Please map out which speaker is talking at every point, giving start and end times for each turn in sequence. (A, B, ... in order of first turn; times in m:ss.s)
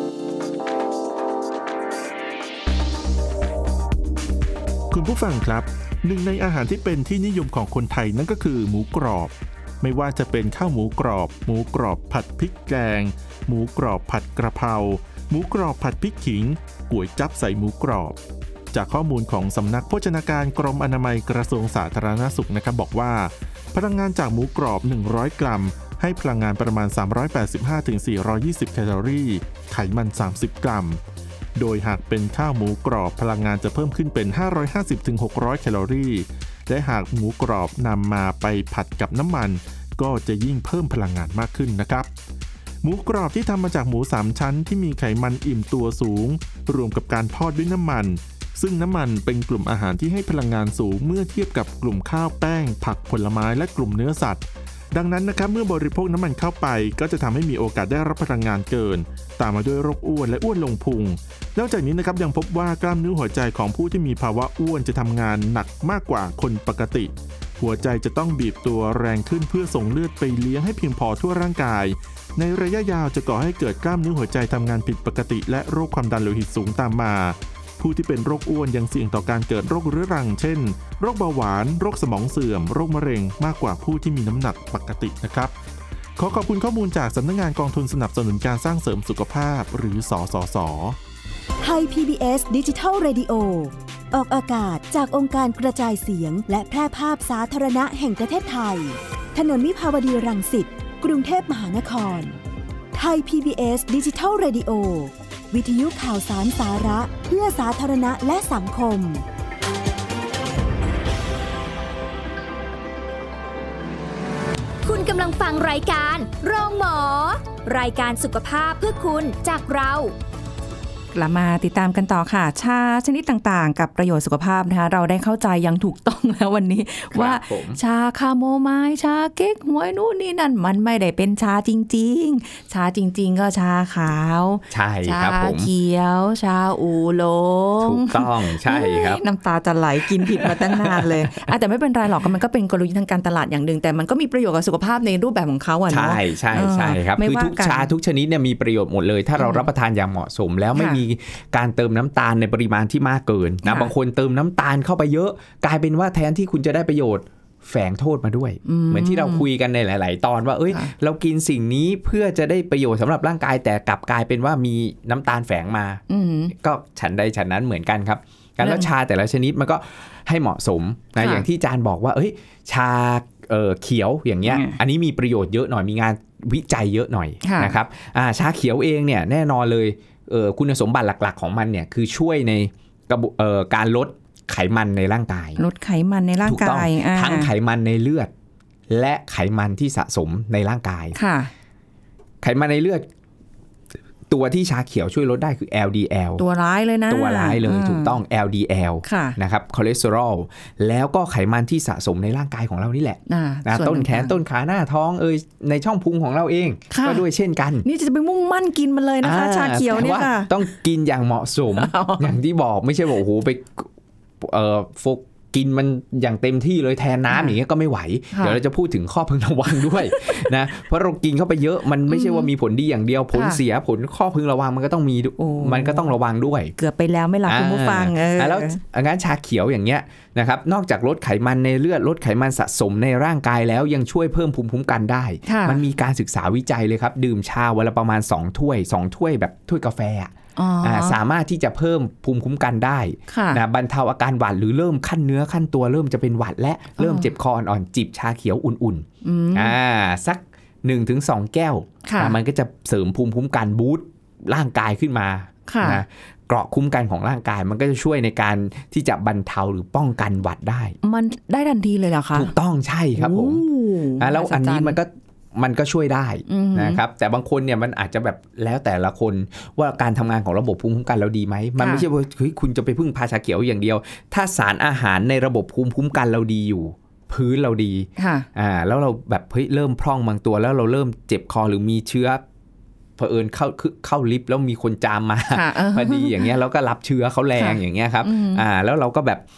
0:04.9-0:18.2 A
0:18.7-0:31.0 A
0:31.6-0:42.1 A
0:42.8-1:25.5 A
1:26.2-1:31.0 A
1:31.6-1:42.4 B
1:42.9-1:49.2 B
1:54.8-2:00.1 C
2:01.1-2:27.9 D
2:07.1-2:07.8 E
2:14.7-2:15.7 E
2:17.8-2:19.2 E
2:20.1-2:21.5 E
2:25.9-3:05.6 E
2:29.4-2:29.6 D
2:30.8-2:31.0 D
2:33.6-2:33.9 D
2:38.6-2:39.5 D
2:46.1-2:46.5 D
2:48.6-2:48.9 D
2:51.2-2:51.5 D
2:54.5-2:54.8 D
2:57.4-2:57.8 D
3:05.6-3:07.5 D
3:06.4-3:08.3 E
3:08.9-3:11.2 E
3:11.1-3:11.5 D
3:12.4-3:13.1 E
3:14.3-3:16.4 E
3:16.4-3:18.2 D
3:17.1-3:27.8 E
3:19.0-3:19.4 D
3:23.3-3:24.4 D
3:26.9-3:27.2 D
3:27.8-3:30.5 D
3:29.2-3:46.7 E
3:31.8-3:32.3 D
3:38.3-3:38.6 D
3:42.1-3:42.5 D
3:43.3-3:43.6 D
3:45.4-3:46.1 D
3:46.8-3:48.8 D
3:47.5-4:21.0 E
3:55.5-3:55.8 D
4:00.6-4:01.2 D
4:03.3-4:03.6 D
4:07.0-4:07.3 D
4:09.2-4:09.8 D
4:12.0-4:12.4 D
4:15.7-4:16.0 D
4:21.0-4:22.5 D
4:22.3-4:23.6 E
4:23.2-4:25.0 D
4:24.2-4:42.4 E
4:26.5-4:27.0 D
4:31.8-4:32.1 D
4:38.2-4:38.5 D
4:43.2-4:49.4 E
4:45.5-4:46.5 D
4:47.6-4:48.6 D